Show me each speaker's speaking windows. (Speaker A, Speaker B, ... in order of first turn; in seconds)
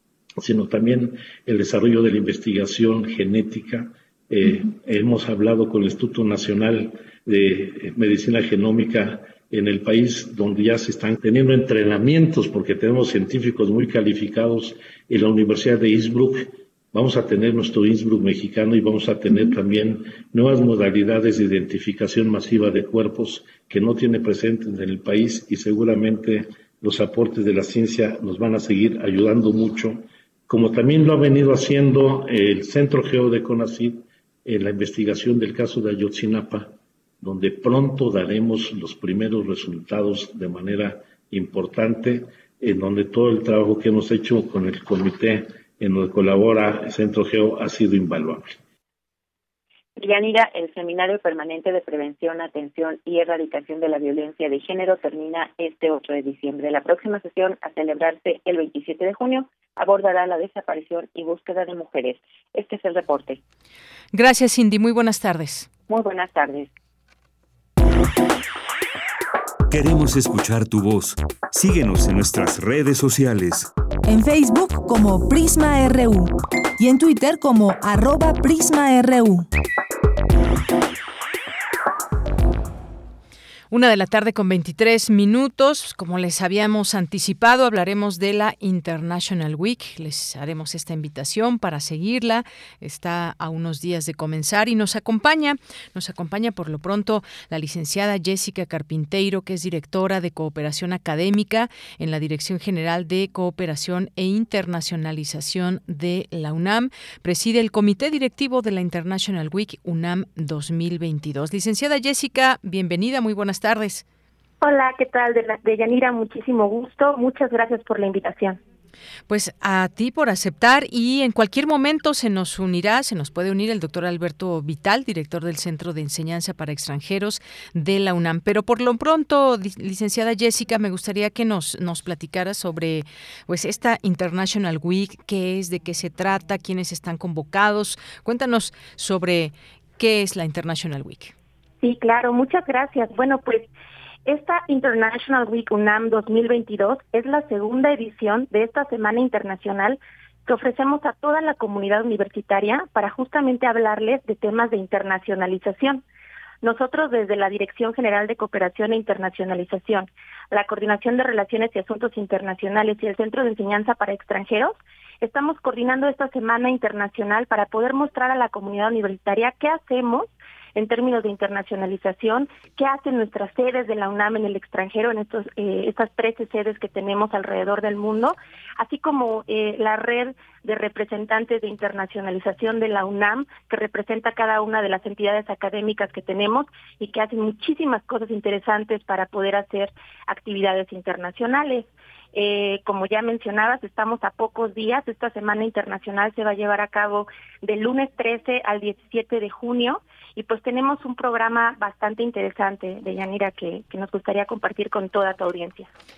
Speaker A: 0.4-48.6
Speaker B: 50.0-63.4, 65.9-66.7
Speaker C: 64.1-65.7, 83.7-114.0, 119.3-141.3
Speaker D: 69.7-73.7
Speaker E: 74.1-79.5
Speaker F: 114.6-118.6, 141.8-143.7, 144.3-156.0, 156.6-205.9